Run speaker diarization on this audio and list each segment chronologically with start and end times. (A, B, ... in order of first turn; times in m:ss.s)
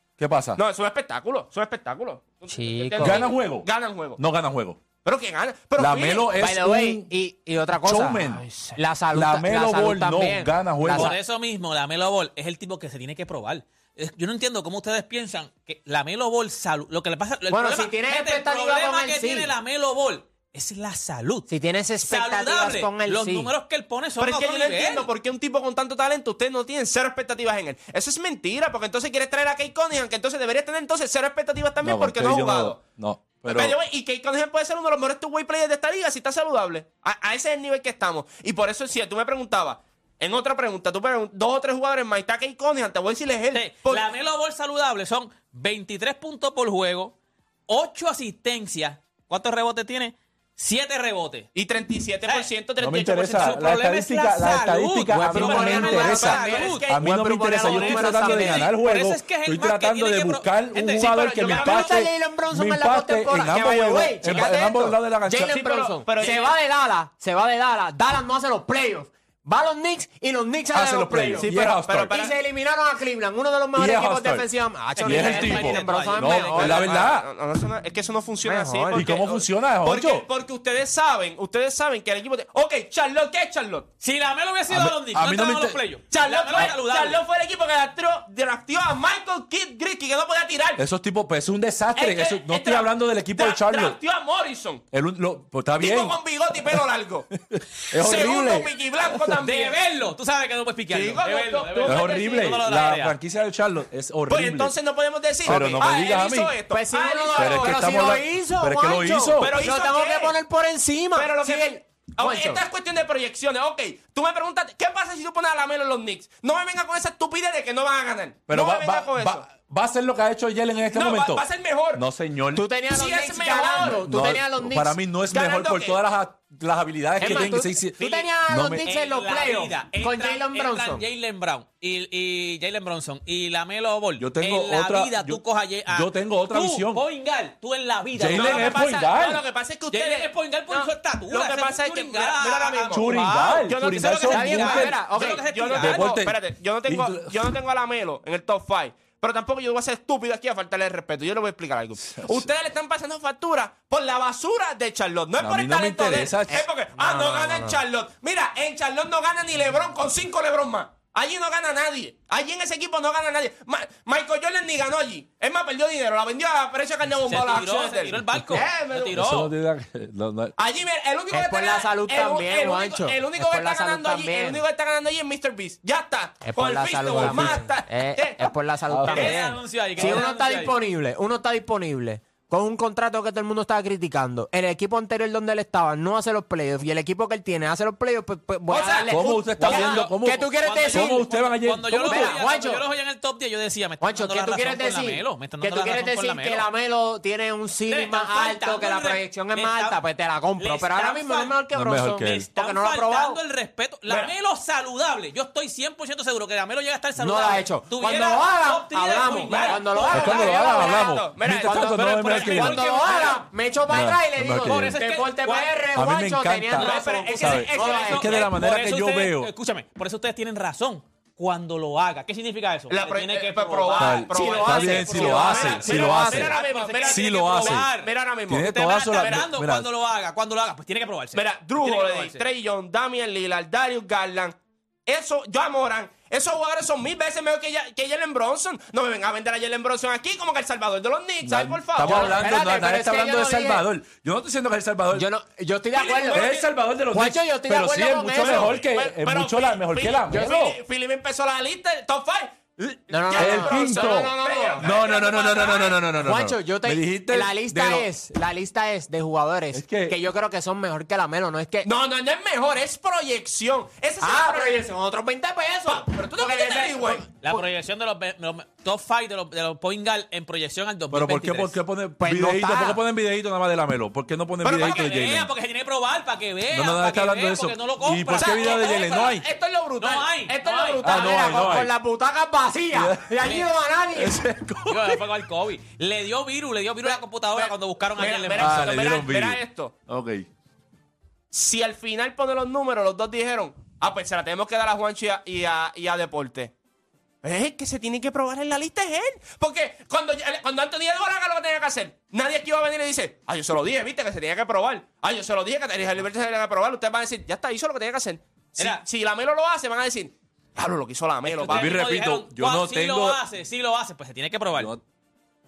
0:00.2-0:00.6 A
0:00.6-0:04.2 B
0:02.5-0:03.2 C
0:03.0-0:04.8 A
0:05.0-0:06.3 B
0:05.8-0:07.1 A
0:06.4-0:11.2 C
0:07.7-0:08.5 A
0:09.1-0:11.2 A
0:10.9-0:21.5 D
0:17.5-0:19.5 C
0:21.5-0:23.5 C
0:22.0-0:25.1 D
0:24.2-0:32.8 B
0:31.8-0:33.8 A
0:33.5-0:44.0 B
0:43.5-0:47.2 D
0:47.7-0:51.5 D
0:51.6-0:53.7 B
0:52.8-1:05.5 A
0:53.4-0:56.9 D
0:55.1-0:58.7 C
0:55.4-0:58.3 B
0:57.7-1:01.1 D
1:01.0-1:02.0 B
1:01.5-1:11.5 C
1:04.3-1:04.5 B
1:05.4-1:06.5 B
1:10.7-1:12.1 A
1:11.3-1:12.4 B
1:12.1-1:17.0 C
1:13.8-1:17.3 A
1:15.0-1:16.9 D
1:16.6-1:23.9 B
1:18.4-1:19.1 C
1:18.9-1:20.2 A
1:24.0-1:27.2 D
1:24.7-1:25.8 A
1:26.1-1:30.8 B
1:30.8-1:34.0 A
1:32.0-1:34.8 B
1:34.9-1:39.4 A
1:35.8-1:37.3 B
1:37.9-1:39.8 B
1:39.4-1:43.1 D
1:40.9-1:42.6 B
1:41.8-1:44.7 A
1:44.3-1:48.1 B
1:45.4-1:46.6 A
1:46.7-1:52.6 C
1:47.4-1:49.6 A
1:49.4-1:50.4 B
1:51.2-1:59.4 B
1:58.5-2:02.7 A
2:00.9-2:02.0 B
2:02.6-2:05.0 C
2:02.9-2:04.0 B
2:03.8-2:08.9 A
2:05.3-2:06.0 B
2:07.2-2:11.0 C
2:07.2-2:08.2 D
2:08.9-2:18.8 D
2:14.2-2:17.0 A
2:18.1-2:19.4 A
2:18.4-2:23.1 B
2:19.9-2:26.1 D
2:22.9-2:25.0 A
2:23.7-2:49.2 B
2:24.3-2:25.4 C
2:25.8-2:27.5 A
2:32.0-2:32.5 A
2:35.4-2:36.6 A
2:36.5-2:37.8 C
2:47.2-2:49.5 D
2:48.4-2:48.6 A
2:49.1-2:50.6 A
2:50.6-2:58.5 B
2:51.3-2:54.6 C
2:56.4-3:11.2 C
2:57.2-2:57.6 A
2:58.9-2:59.4 A
2:59.1-3:00.8 D
3:00.0-3:00.2 A
3:08.7-3:16.7 D
3:09.1-3:12.4 A
3:12.0-3:12.8 C
3:14.0-3:23.4 C
3:17.9-3:20.0 D
3:20.6-3:21.6 D
3:21.7-3:22.5 A
3:22.3-3:30.4 D
3:27.2-3:31.1 C
3:29.5-3:33.4 B
3:30.1-3:32.8 A
3:31.6-3:38.3 C
3:32.0-3:33.4 D
3:33.9-3:35.0 A
3:34.6-3:35.7 D
3:35.9-3:39.5 A
3:36.8-3:38.5 B
3:37.7-3:48.1 D
3:42.9-3:49.5 B
3:44.0-3:46.5 A
3:44.3-3:46.5 C
3:47.0-3:47.9 A
3:48.5-3:49.9 A
3:48.6-3:52.4 D
3:51.3-4:02.4 B
4:01.4-4:05.3 A
4:02.0-4:03.8 C
4:05.1-4:06.5 C
4:05.9-4:06.7 B
4:06.3-4:10.8 A
4:07.1-4:08.8 C
4:08.4-4:16.0 B
4:13.1-4:14.9 C
4:13.3-4:18.1 A
4:16.2-4:21.9 C
4:19.7-4:20.2 A
4:21.8-4:24.8 B
4:24.2-4:27.6 C
4:25.9-4:27.3 B
4:27.4-4:31.8 D
4:31.1-4:35.5 A
4:32.2-4:33.0 C
4:34.6-4:35.1 B
4:34.7-4:39.1 D
4:36.7-4:39.4 A
4:38.3-4:41.7 B
4:40.0-4:41.0 D
4:41.0-4:41.9 A
4:41.0-4:44.4 C
4:42.9-4:43.4 A
4:43.4-4:43.7 D
4:44.2-4:45.2 A
4:44.9-4:49.0 D
4:47.0-4:49.9 B
4:48.6-4:50.5 A
4:51.5-4:56.7 B
4:57.4-5:12.0 B
5:11.4-5:14.9 D
5:11.6-5:13.4 A
5:14.8-5:15.0 A